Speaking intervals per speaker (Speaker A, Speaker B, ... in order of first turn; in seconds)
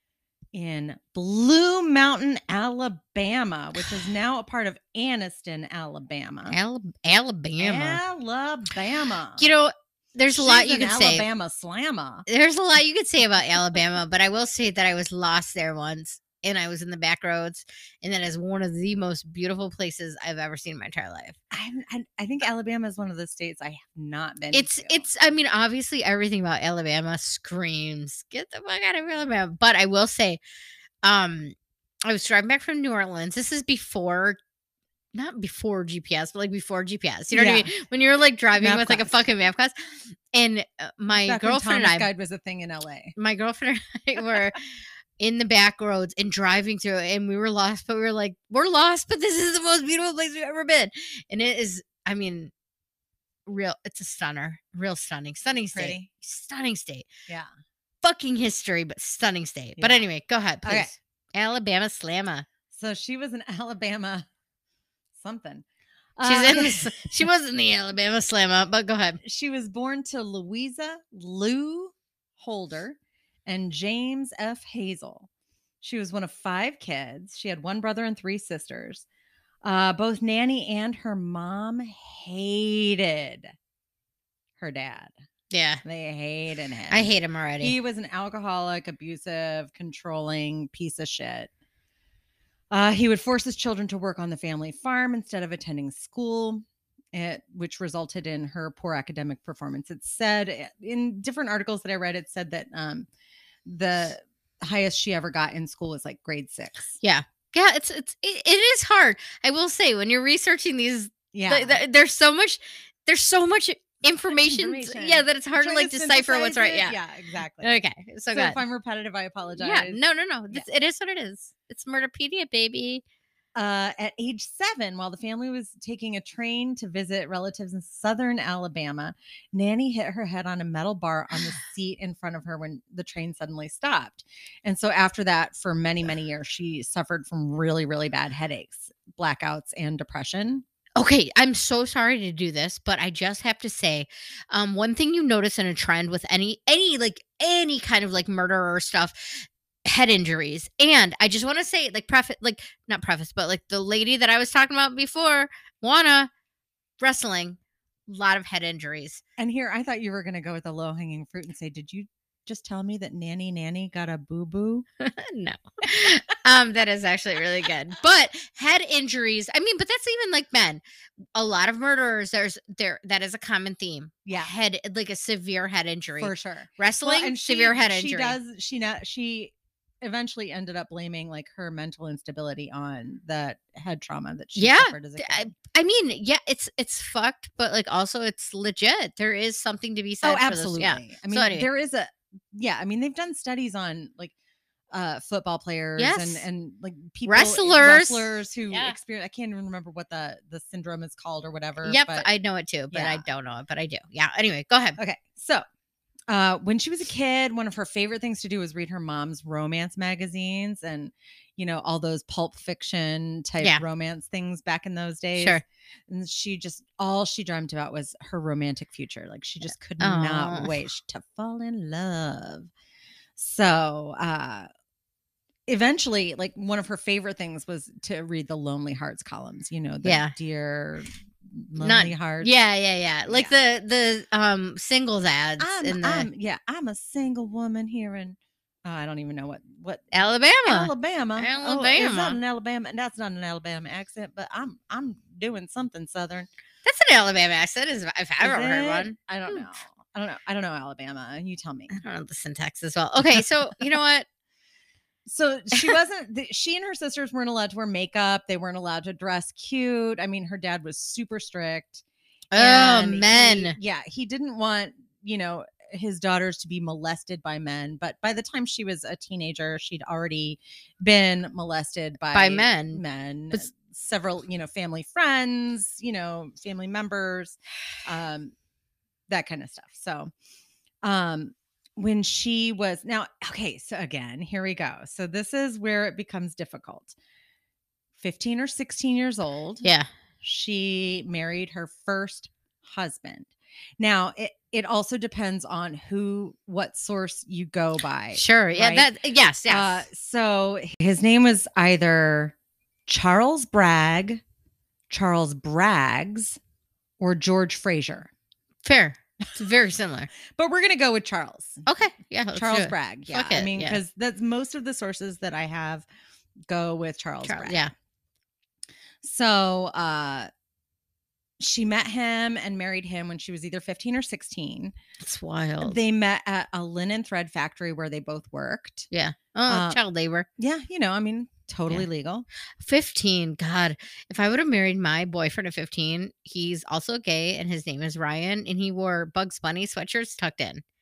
Speaker A: 0.5-6.5, 7.6-9.5, 10.3-12.2, 21.5-25.1, 37.3-37.7, 38.6-39.1, 41.2-43.1, 55.7-56.1, 59.8-60.1, 60.6-60.9, 62.7-64.3, 65.1-65.7, 66.2-67.2, 69.2-75.3, 75.8-79.0, 79.6-83.5, 84.6-85.1, 85.8-91.5, 92.7-103.1, 103.6-107.0, 111.3-111.8, 114.3-117.7, 118.3-120.7, 123.5-140.6, 159.4-164.8, 174.2-174.5, 176.2-185.5, 190.2-194.3, 194.9-202.3, 202.9-203.2, 205.0-205.6, 206.3-222.7, 223.3-224.7, 225.7-232.5, 233.3-233.5, 235.6-240.1, 240.6-246.5, 248.4-252.0, 255.2-278.5, 279.3-280.3, 281.0-287.1, 288.2-289.8, 290.4-299.1, 299.7-302.6, 303.1-304.4, 305.1-306.6, 307.2-308.3, 310.5-311.8, 312.5-316.1, 316.7-317.8, 319.2-320.5, 321.6-324.9, 325.8-329.1, 329.7-330.0, 330.6-332.4
Speaker B: 6.5-8.0, 9.4-11.3, 12.3-21.4, 24.5-30.4, 31.0-31.5, 32.0-34.4, 35.1-42.1, 43.1-44.6, 45.2-52.5, 53.5-57.1, 58.0-62.5, 66.2-69.2, 85.5-85.8, 86.9-87.7, 107.0-117.0, 117.6-118.6, 119.6-123.0, 141.0-156.3, 157.0-159.2, 165.0-170.8, 171.3-178.4, 184.6-191.7, 196.0-196.4, 197.2-198.9, 201.8-205.0, 215.3-215.6, 220.0-220.7, 230.0-230.3, 231.8-236.3, 240.1-242.4, 246.8-249.7, 251.9-254.2, 262.5-263.8, 272.3-273.0, 289.8-290.1, 298.3-300.1, 308.8-310.3, 311.9-314.0, 317.4-317.9, 325.2-326.0, 329.1-330.5, 332.8-340.8